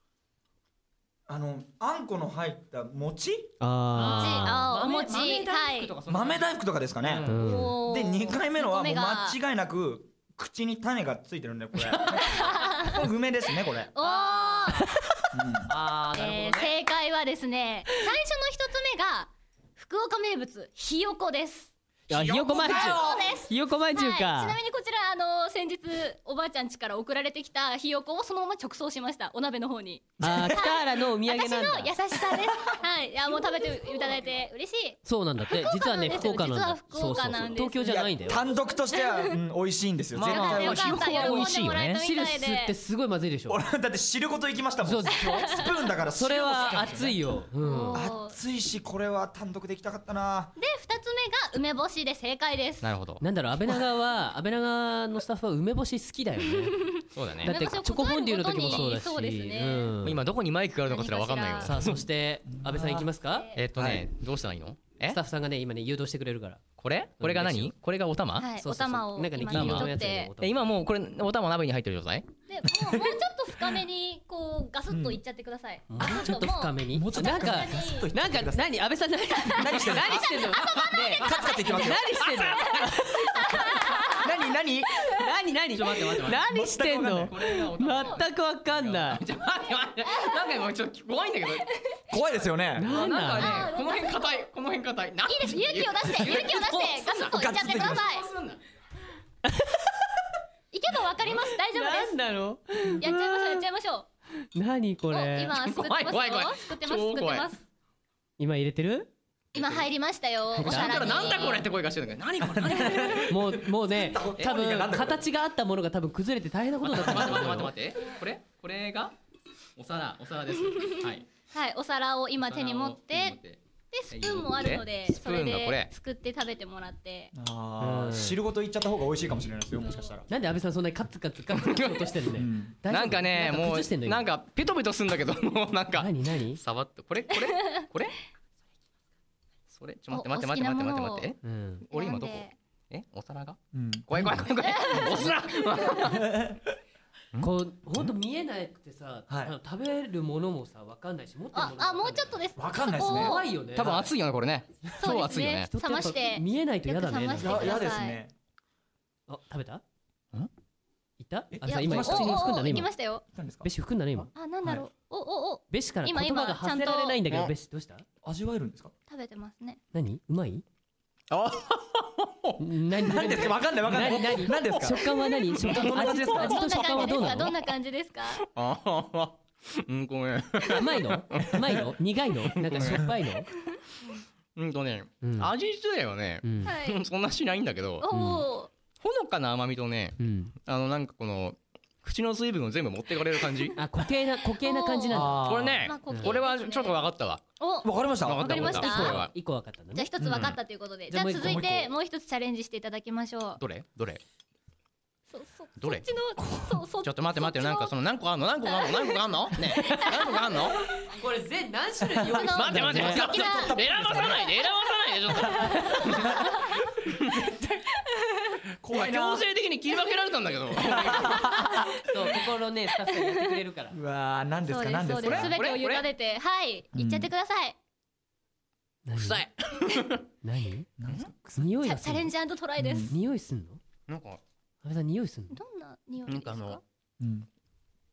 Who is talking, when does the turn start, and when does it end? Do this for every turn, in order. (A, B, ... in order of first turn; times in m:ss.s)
0:01.3-0:03.5 A
0:03.6-0:04.6 B
0:03.9-0:06.5 C
0:04.1-0:05.9 D
0:06.1-0:13.9 A
0:07.0-0:07.6 C
0:07.2-0:07.7 B
0:07.3-0:09.4 D
0:11.8-0:12.6 C
0:12.1-0:13.0 D
0:13.9-0:14.8 D
0:14.0-0:14.9 C
0:15.3-0:15.7 A
0:15.6-0:16.7 C
0:16.1-0:21.7 D
0:22.1-0:24.6 B
0:22.1-0:23.3 A
0:22.1-0:23.1 C
0:22.6-0:38.0 D
0:30.2-0:30.6 A
0:30.2-0:31.9 B
0:35.0-0:38.5 B
0:37.8-0:41.4 A
0:38.9-0:39.4 D
0:40.1-0:42.0 C
0:40.3-0:42.7 D
0:42.0-0:43.6 B
0:43.5-0:47.2 A
0:44.8-0:45.6 B
0:45.2-0:45.7 D
0:46.1-0:48.0 B
0:47.6-0:48.4 D
0:47.9-0:50.5 A
0:50.6-0:52.9 D
0:52.8-0:53.2 C
0:53.2-0:56.8 B
0:56.7-0:59.9 D
0:57.1-0:57.6 C
0:57.4-1:00.2 B
1:00.0-1:02.0 C
1:00.9-1:01.7 D
1:01.6-1:03.5 B
1:02.5-1:03.1 A
1:03.3-1:03.6 D
1:03.5-1:05.2 C
1:03.7-1:04.1 A
1:05.1-1:06.6 B
1:06.8-1:08.5 C
1:07.2-1:07.7 B
1:08.4-1:10.3 D
1:08.6-1:10.6 B
1:09.5-1:12.3 C
1:12.5-1:18.1 D
1:14.9-1:15.2 A
1:15.9-1:23.8 B
1:16.9-1:18.7 A
1:19.4-1:24.4 D
1:19.5-1:20.4 A
1:21.2-1:22.1 A
1:24.2-1:25.0 A
1:25.1-1:29.2 B
1:25.7-1:26.5 C
1:26.4-1:27.3 A
1:27.2-1:31.7 C
1:30.0-1:30.6 D
1:32.1-1:33.0 A
1:32.8-1:33.7 B
1:32.8-1:38.6 C
1:33.2-1:34.5 D
1:35.2-1:38.3 D
1:37.3-1:38.0 A
1:39.4-1:40.1 B
1:40.7-1:42.2 D
1:41.7-1:43.6 B
1:43.0-1:44.1 D
1:44.5-1:45.5 B
1:45.1-1:47.6 D
1:45.6-1:47.5 C
1:48.4-1:49.1 B
1:49.5-1:51.7 D
1:49.5-1:49.8 C
1:50.5-1:51.2 B
1:50.6-1:53.4 C
1:52.4-1:55.2 A
1:53.2-1:57.7 B
1:56.8-1:59.1 C
1:59.8-2:01.2 C
2:01.5-2:03.4 D
2:02.4-2:05.9 C
2:03.9-2:07.3 D
2:07.3-2:10.3 A
2:07.8-2:08.4 B
2:10.3-2:14.3 B
2:11.5-2:12.1 C
2:12.3-2:12.8 A
2:12.9-2:18.2 C
2:16.0-2:16.6 B
2:19.7-2:21.4 C
2:20.1-2:21.3 D
2:21.4-2:21.8 B
2:21.9-2:22.6 D
2:21.9-2:26.4 C
2:23.7-2:24.5 A
2:24.6-2:26.2 D
2:26.0-2:26.8 A
2:27.4-2:32.4 B
2:29.3-2:29.5 A
2:31.5-2:33.5 D
2:32.6-2:33.4 A
2:33.0-2:34.1 B
2:33.7-2:35.7 C
2:35.0-2:38.2 D
2:35.7-2:37.8 B
2:37.4-2:38.3 A
2:39.3-2:39.8 B
2:41.2-2:42.9 B
2:41.5-2:42.6 A
2:41.7-2:43.2 D
2:43.3-2:43.7 A
2:43.6-2:44.3 B
2:44.4-2:47.2 D
2:45.7-2:48.0 B
2:48.2-2:48.9 A
2:49.1-2:49.8 D
2:49.9-2:50.6 B
2:51.3-2:52.6 C
2:52.6-2:57.5 B
2:53.0-2:57.2 A
2:56.0-2:58.5 D
2:58.4-3:01.9 C
3:00.7-3:03.5 B
3:02.5-3:03.1 C
3:04.6-3:08.1 C
3:05.2-3:05.5 B
3:06.4-3:06.7 B
3:06.6-3:07.0 D
3:08.0-3:08.7 D
3:08.1-3:08.4 B
3:09.0-3:13.8 C
3:10.2-3:10.5 B
3:13.8-3:16.4 B
3:14.6-3:17.1 D
3:15.1-3:15.6 A
3:15.2-3:17.4 C
3:17.6-3:19.2 D
3:17.8-3:18.8 A
3:18.2-3:19.3 C
3:18.4-3:20.1 B
3:19.9-3:23.6 D
3:20.2-3:20.5 A
3:20.2-3:20.6 C
3:21.1-3:21.8 B
3:21.4-3:21.9 A
3:23.6-3:24.2 C
3:25.3-3:27.9 D
3:25.8-3:26.1 C
3:27.0-3:30.9 C
3:28.6-3:30.7 D
3:29.8-3:30.1 B
3:31.0-3:33.2 B
3:32.2-3:34.5 A
3:32.3-3:36.8 D
3:32.5-3:36.5 C
3:36.2-3:36.5 A
3:37.0-3:37.5 C
3:37.2-3:37.8 A
3:38.3-3:38.6 D
3:38.8-3:39.4 A
3:38.9-3:41.8 C
3:40.8-3:41.9 A
3:42.0-3:44.0 B
3:43.1-3:43.6 D
3:43.9-3:45.5 A
3:44.7-3:47.8 D
3:45.2-3:46.1 C
3:46.9-3:47.3 A
3:49.0-3:49.4 B
3:49.2-3:50.2 C
3:50.4-3:50.9 B
3:51.0-3:51.7 A
3:51.6-3:52.3 B
3:51.8-3:53.1 D
3:52.8-3:53.1 A
3:53.0-3:53.8 B
3:54.1-3:54.4 C
3:54.8-3:55.6 B
3:55.5-3:56.8 D
3:56.3-3:56.8 C
3:57.2-3:57.5 A